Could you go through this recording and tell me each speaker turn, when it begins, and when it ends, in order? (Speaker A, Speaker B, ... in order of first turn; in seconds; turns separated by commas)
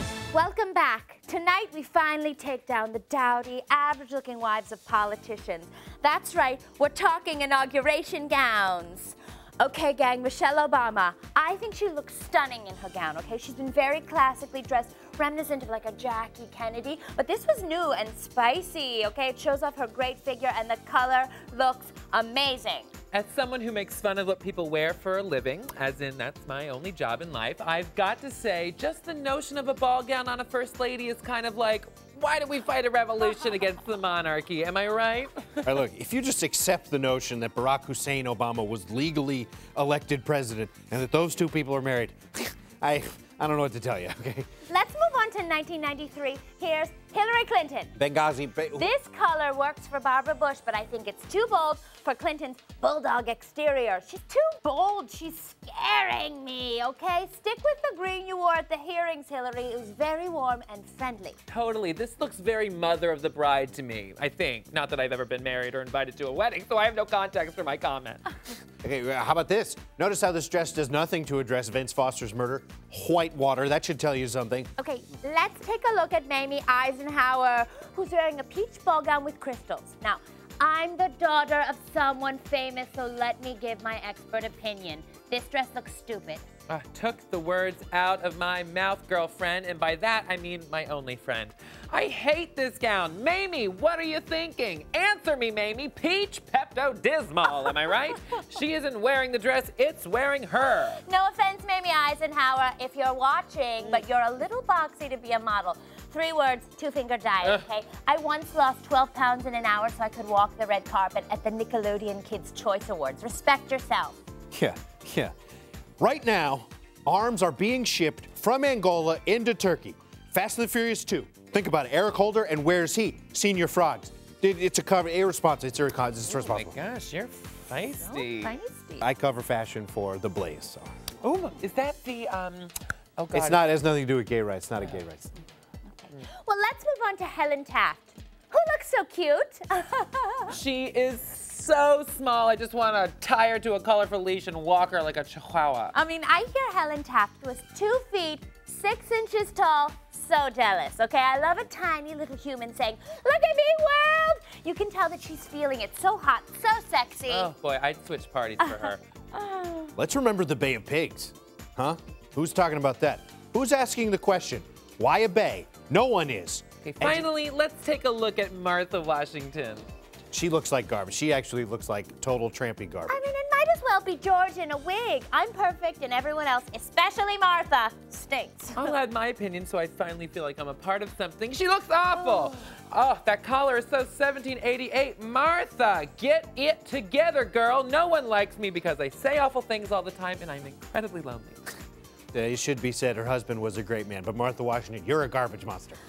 Speaker A: 0.3-22.9, Speaker B: 23.1-35.8, Speaker C: 35.6-44.5, Speaker A: 44.7-48.0, Speaker C: 48.0-48.9, Speaker A: 48.7-61.4, Speaker B: 61.5-68.3, Speaker C: 68.8-74.7, Speaker A: 74.8-86.4, Speaker B: 86.7-101.0, Speaker A: 100.9-114.2, Speaker C: 114.5-115.3, Speaker C: 116.0-126.8, Speaker B: 126.3-128.6, Speaker A: 128.0-129.1, Speaker C: 129.0-131.0, Speaker B: 131.2-133.7, Speaker C: 133.3-135.3, Speaker A: 135.9-140.6, Speaker B: 140.5-145.9, Speaker A: 145.9-157.5, Speaker B: 157.3-159.0, Speaker A: 158.6-159.9, Speaker C: 160.0-167.3, Speaker B: 166.8-169.9, Speaker C: 170.3-173.2, Speaker A: 173.1-178.9, Speaker B: 178.8-191.7, Speaker C: 192.3-196.0